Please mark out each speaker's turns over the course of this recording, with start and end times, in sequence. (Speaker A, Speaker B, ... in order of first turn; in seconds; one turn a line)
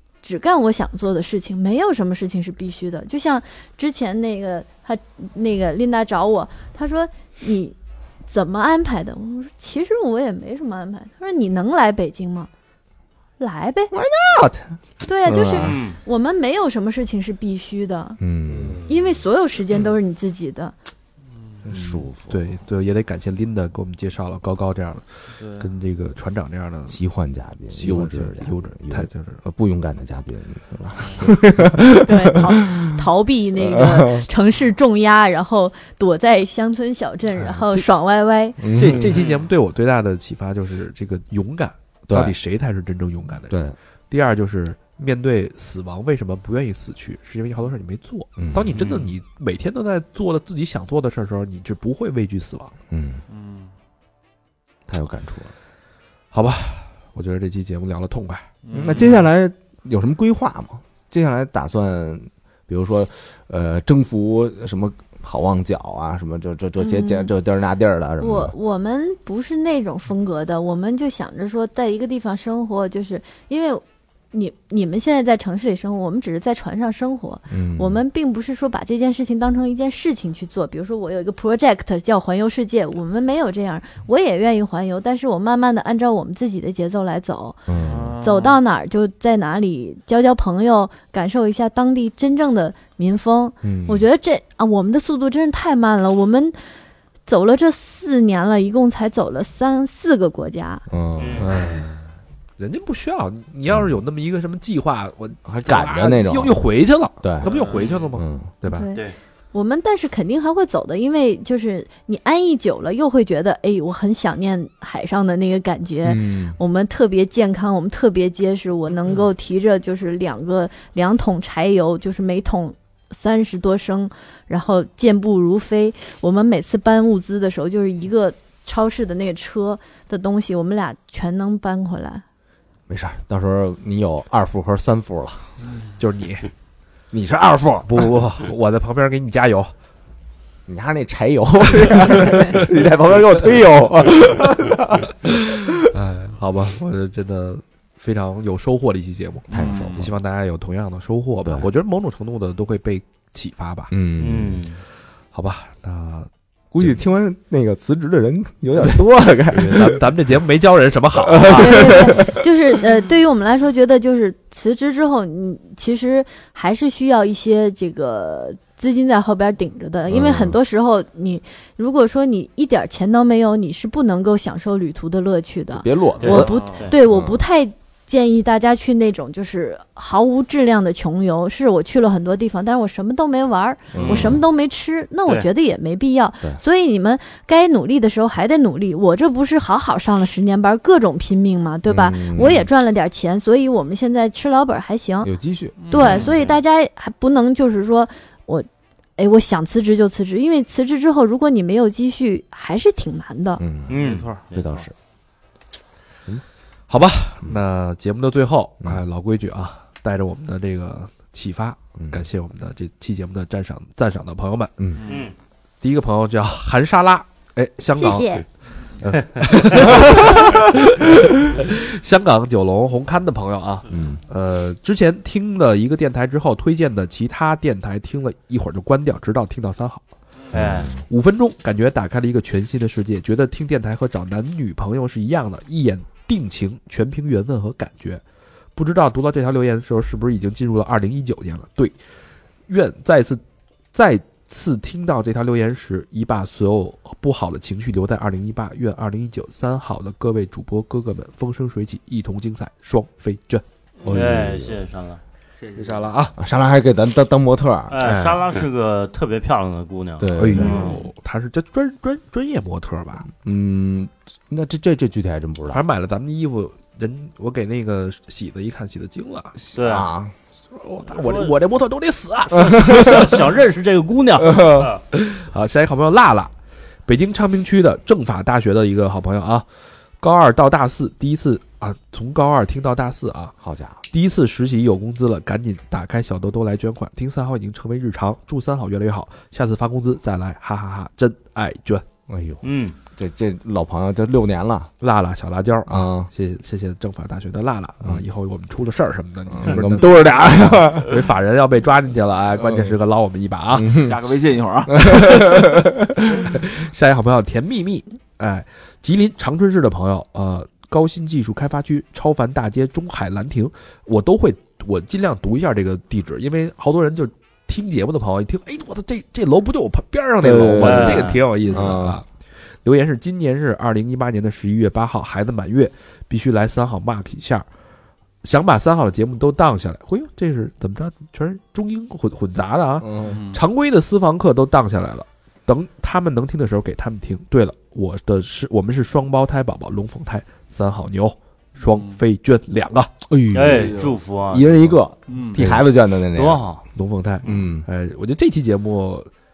Speaker A: 0.2-7.8
Speaker A: 8.3-12.5
Speaker A: 13.4-13.9
Speaker B: 13.9-15.8
Speaker A: 15.1-18.2
Speaker C: 15.6-16.0
Speaker B: 18.2-18.9
Speaker A: 18.9-20.7
Speaker B: 21.6-22.5
Speaker D: 21.7-27.0
Speaker E: 25.4-25.7
Speaker B: 26.9-33.0
Speaker D: 27.7-29.4
Speaker A: 32.0-38.6
Speaker B: 33.6-34.3
Speaker B: 37.3-37.8
Speaker B: 38.6-39.2
Speaker D: 38.7-43.6
Speaker E: 39.1-39.4
Speaker B: 42.1-42.3
Speaker B: 43.5-43.7
Speaker D: 44.1-52.7
Speaker B: 48.4-48.8
Speaker C: 48.8-49.1
Speaker B: 52.9-53.2
Speaker E: 53.3-53.7
Speaker B: 54.9-55.5
Speaker D: 56.3-58.5
Speaker E: 58.6-59.2
Speaker B: 58.7-68.5
Speaker A: 66.8-67.3
Speaker A: 68.2-87.6
Speaker B: 77.5-78.0
Speaker B: 87.7-88.1
Speaker E: 87.7-88.6
Speaker A: 88.2-96.6
Speaker B: 93.6-94.1
Speaker A: 97.2-100.8
Speaker B: 100.9-101.9
Speaker C: 101.2-101.5
Speaker D: 101.4-101.9
Speaker D: 102.6-108.9
Speaker B: 105.4-106.6
Speaker B: 107.2-107.5
Speaker E: 107.4-108.1
Speaker B: 108.1-108.5
Speaker A: 108.7-132.2
Speaker B: 116.0-116.6
Speaker B: 132.9-135.4
Speaker D: 136.0-136.5
Speaker B: 137.1-138.1
Speaker D: 137.9-139.7
Speaker B: 140.7-145.7
Speaker D: 145.8-153.9
Speaker E: 149.5-150.1
Speaker B: 149.5-150.1
Speaker B: 151.4-151.7
Speaker B: 153.9-154.6
Speaker C: 154.2-154.8
Speaker D: 155.3-157.0
Speaker B: 156.7-160.0
Speaker D: 159.5-162.2
Speaker B: 161.2-162.4
Speaker A: 161.5-195.3
Speaker B: 170.1-170.6
Speaker B: 175.7-176.5
Speaker E: 176.2-176.9
Speaker C: 176.2-176.9
Speaker B: 177.0-177.4
Speaker B: 183.9-184.4
Speaker C: 183.9-184.3
Speaker B: 191.9-192.7
Speaker B: 195.2-195.9
Speaker E: 195.8-196.3
Speaker A: 195.9-203.6
Speaker C: 195.9-196.6
Speaker B: 203.6-204.9
Speaker C: 203.9-204.6
Speaker E: 203.9-204.9
Speaker D: 206.9-214.8
Speaker B: 211.9-212.3
Speaker E: 215.0-215.3
Speaker C: 215.1-215.3
Speaker D: 215.8-218.4
Speaker A: 217.9-218.4
Speaker D: 219.0-230.0
Speaker B: 223.9-224.2
Speaker C: 230.5-230.9
Speaker B: 230.5-231.0
Speaker D: 231.1-238.2
Speaker D: 238.8-242.0
Speaker D: 242.7-243.4
Speaker D: 243.9-253.6
Speaker B: 254.0-254.8
Speaker C: 254.1-255.2
Speaker E: 255.6-256.1
Speaker D: 255.8-256.3
Speaker B: 256.4-258.0
Speaker C: 257.9-261.0
Speaker D: 258.0-258.4
Speaker B: 260.2-260.9
Speaker D: 260.4-263.3
Speaker B: 263.3-265.8
Speaker D: 265.7-269.5
Speaker B: 269.6-270.3
Speaker C: 269.7-270.1
Speaker D: 270.7-273.3
Speaker C: 271.1-271.5
Speaker B: 272.6-273.3
Speaker C: 272.6-275.0
Speaker B: 274.4-274.9
Speaker D: 275.1-276.5
Speaker D: 277.1-279.6
Speaker D: 280.2-283.5
Speaker B: 283.6-284.0
Speaker D: 284.1-292.0
Speaker B: 292.3-292.6
Speaker C: 292.6-292.9
Speaker B: 293.1-294.9
Speaker D: 295.0-304.0
Speaker B: 295.9-296.3
Speaker B: 299.5-301.2
Speaker B: 302.6-302.9
Speaker B: 303.7-304.1
Speaker E: 304.0-305.1
Speaker D: 305.0-322.2
Speaker B: 305.1-305.9
Speaker B: 320.4-322.2
Speaker C: 320.8-321.4
Speaker D: 322.8-327.6
Speaker D: 328.4-343.1
Speaker B: 333.0-333.4
Speaker E: 333.2-333.6
Speaker E: 341.8-342.2
Speaker B: 343.3-346.6
Speaker C: 343.5-344.9
Speaker E: 343.7-344.1
Speaker E: 345.3-345.6
Speaker C: 346.3-346.8
Speaker D: 346.9-349.3
Speaker B: 347.4-347.9